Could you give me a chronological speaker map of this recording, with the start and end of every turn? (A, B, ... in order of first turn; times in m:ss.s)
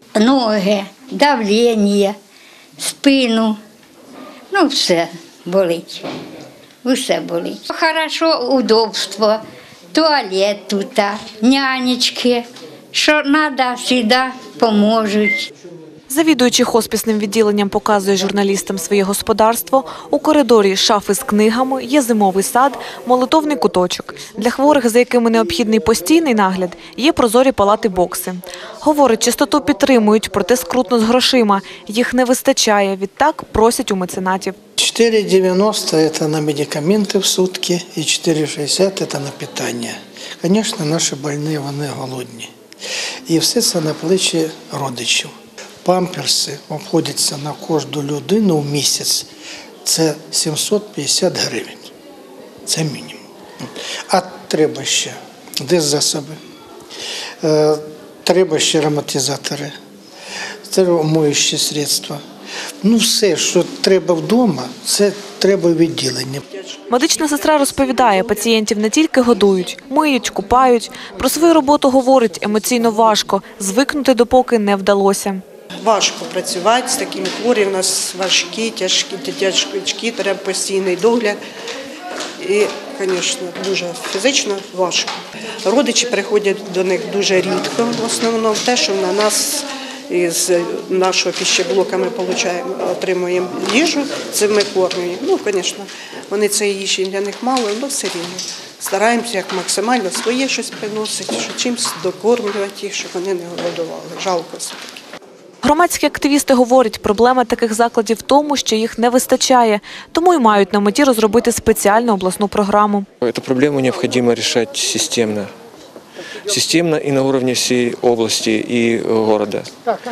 0:00.2-0:02.2 A
0:02.8-0:03.6 A
0:04.5-0:06.1 A
0:06.8-0:15.5 A
0:16.1-0:34.6 B
0:34.8-0:42.5 C
0:43.3-0:49.3 C
0:49.8-0:51.9 C
0:52.7-0:56.4 C
0:57.4-0:59.7 C
1:00.7-1:02.2 C
1:02.8-1:06.4 C
1:06.5-1:08.6 D
1:06.9-1:15.4 B
1:15.8-1:21.4 D
1:22.4-1:45.0 D
1:45.6-1:53.1 B
1:53.2-1:55.5 E
1:56.5-1:59.7 E